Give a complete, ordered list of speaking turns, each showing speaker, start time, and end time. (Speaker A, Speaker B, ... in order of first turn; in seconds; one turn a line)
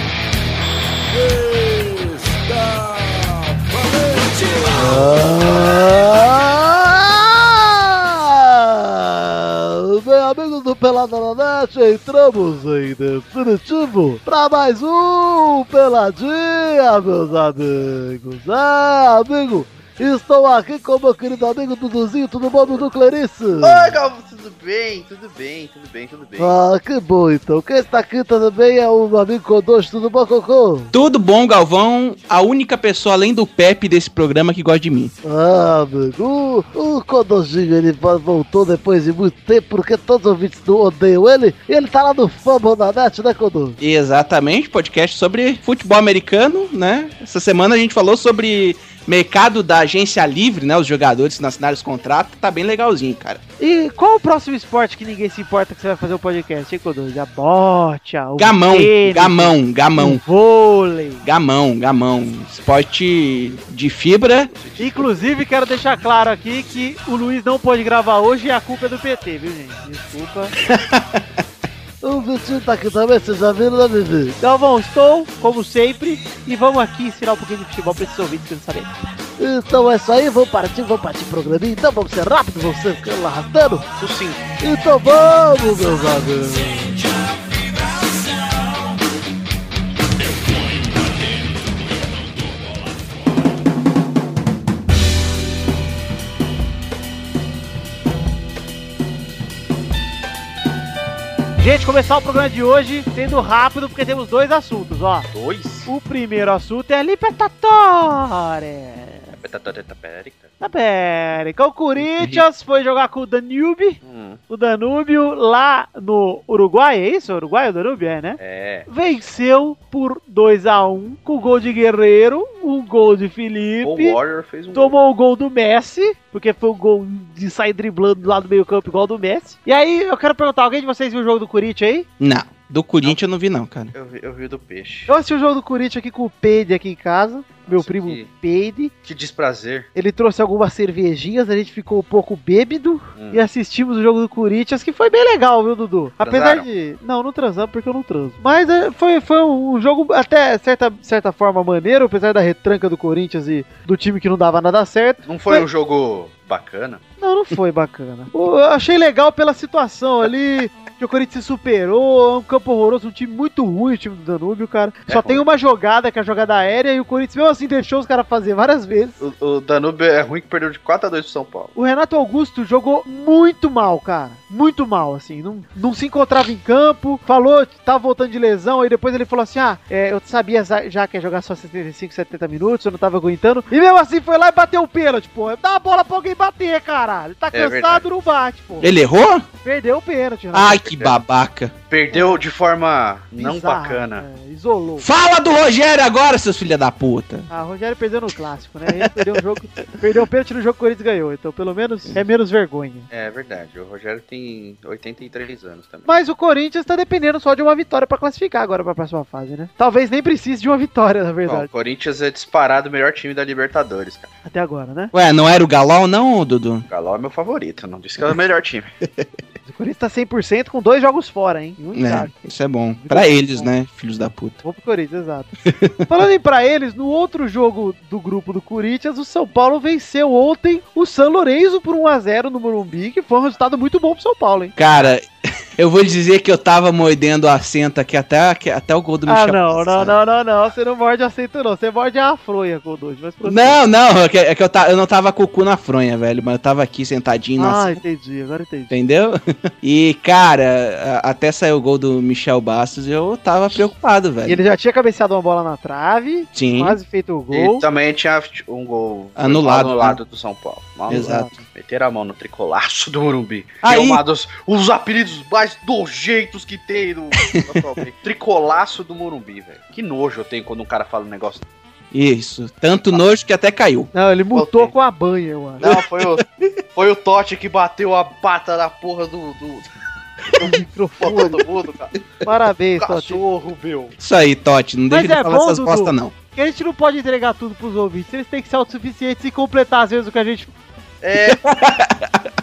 Speaker A: 1.1-5.2
Speaker B: 4.7-24.0
Speaker C: 23.6-26.6
Speaker B: 26.4-30.9
Speaker D: 30.9-35.1
Speaker B: 35.2-43.8
Speaker D: 43.8-53.4
Speaker E: 53.6-61.2
Speaker D: 58.4-60.2
Speaker D: 61.2-64.5
Speaker C: 64.5-65.1
Speaker E: 64.8-70.5
Speaker D: 70.6-71.2
Speaker B: 72.0-74.4
Speaker E: 74.4-79.1
Speaker B: 79.4-83.9
Speaker C: 84.0-84.5
Speaker B: 84.6-87.0
Speaker E: 101.6-105.3
Speaker C: 105.3-105.9
Speaker E: 105.9-109.3
Speaker C: 109.3-110.5
Speaker E: 110.6-124.2
Speaker D: 112.0-112.4
Speaker C: 114.0-114.4
Speaker C: 118.4-118.9
Speaker C: 123.8-125.0
Speaker E: 124.7-132.1
Speaker D: 132.2-133.9
Speaker C: 133.9-135.1
Speaker E: 135.1-138.9
Speaker C: 137.7-138.3
Speaker C: 139.0-139.9
Speaker E: 139.9-155.7
Speaker C: 143.2-143.4
Speaker C: 146.2-146.7
Speaker C: 155.3-157.0
Speaker E: 157.2-169.2
Speaker C: 165.1-165.4
Speaker C: 169.2-171.7
Speaker E: 171.8-188.9
Speaker C: 187.5-188.0
Speaker D: 188.8-189.5
Speaker E: 189.6-190.8
Speaker D: 190.5-191.7
Speaker C: 190.8-191.2
Speaker C: 191.9-194.2
Speaker E: 192.1-192.4
Speaker E: 193.4-195.1
Speaker D: 195.0-197.5
Speaker E: 197.5-203.1
Speaker C: 203.1-206.1
Speaker E: 206.1-211.7
Speaker C: 211.5-214.3
Speaker E: 214.4-215.1
Speaker D: 215.1-216.9
Speaker C: 216.9-218.9
Speaker E: 219.7-222.3
Speaker D: 221.9-224.6
Speaker E: 223.0-223.7
Speaker E: 224.6-225.5
Speaker D: 225.7-226.1
Speaker E: 226.1-234.8
Speaker D: 234.8-240.2
Speaker E: 239.3-243.8
Speaker D: 243.4-248.0
Speaker E: 247.6-248.9
Speaker D: 248.9-254.6
Speaker E: 254.4-257.9
Speaker D: 256.5-257.0
Speaker C: 257.5-271.7
Speaker D: 259.4-260.2
Speaker E: 261.1-261.5
Speaker D: 261.1-261.6
Speaker D: 263.8-264.2
Speaker D: 267.4-268.0
Speaker D: 272.1-274.1
Speaker E: 274.1-275.8
Speaker C: 274.5-274.9
Speaker C: 275.8-279.9
Speaker D: 275.8-276.7
Speaker C: 280.5-282.3
Speaker E: 280.6-281.6
Speaker E: 282.4-283.4
Speaker C: 283.0-284.1
Speaker D: 284.2-286.3
Speaker E: 285.1-290.7
Speaker C: 291.2-291.6
Speaker D: 291.4-292.5